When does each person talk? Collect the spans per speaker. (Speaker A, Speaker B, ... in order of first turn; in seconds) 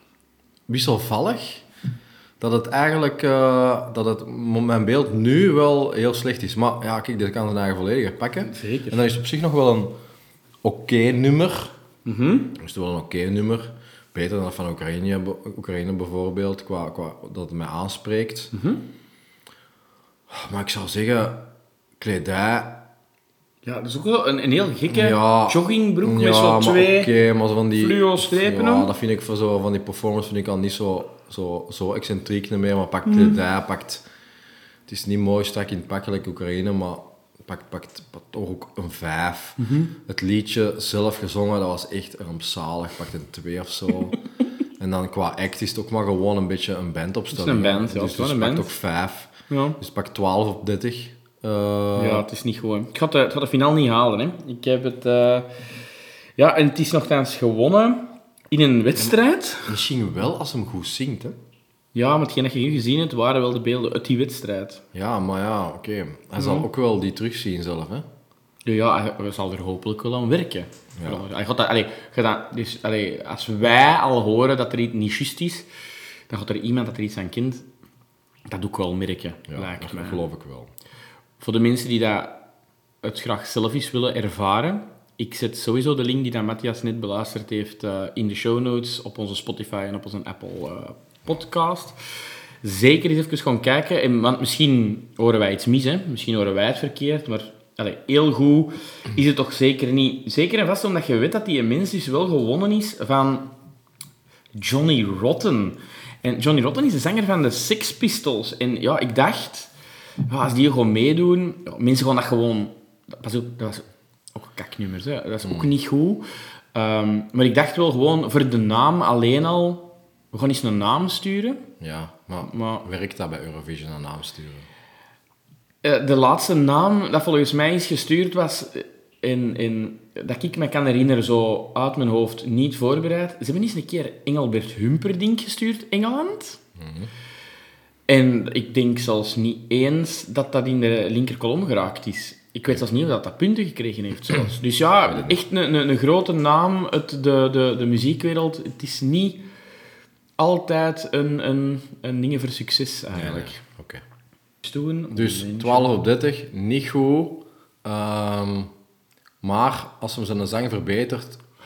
Speaker A: 0.7-1.6, 2.4-9.9, 10.6-11.7, 12.6-18.5, 20.3-21.4, 22.0-22.8, 24.9-34.0, 34.9-44.2, 44.8-52.2, 59.6-61.4, 64.9-68.0, 71.0-71.3, 79.5-80.7, 115.4-115.7, 121.8-124.6, 136.8-137.1, 145.1-145.4, 153.1-154.0, 155.1-158.7, 159.4-161.4
Speaker B: 8.4-9.0, 12.0-12.6, 18.5-18.8, 23.6-27.1, 27.8-28.9, 33.1-33.4, 39.6-39.9, 47.3-48.7, 49.5-49.8, 52.0-55.5, 56.4-59.8, 61.9-64.8, 66.4-66.7, 68.7-75.7, 76.3-77.7, 78.5-80.2, 81.4-82.3, 83.0-92.0, 92.6-103.5, 104.5-109.7, 110.3-116.2, 116.7-121.6, 122.4-122.8, 125.8-136.6, 138.1-149.4, 150.4-153.6, 154.6-155.9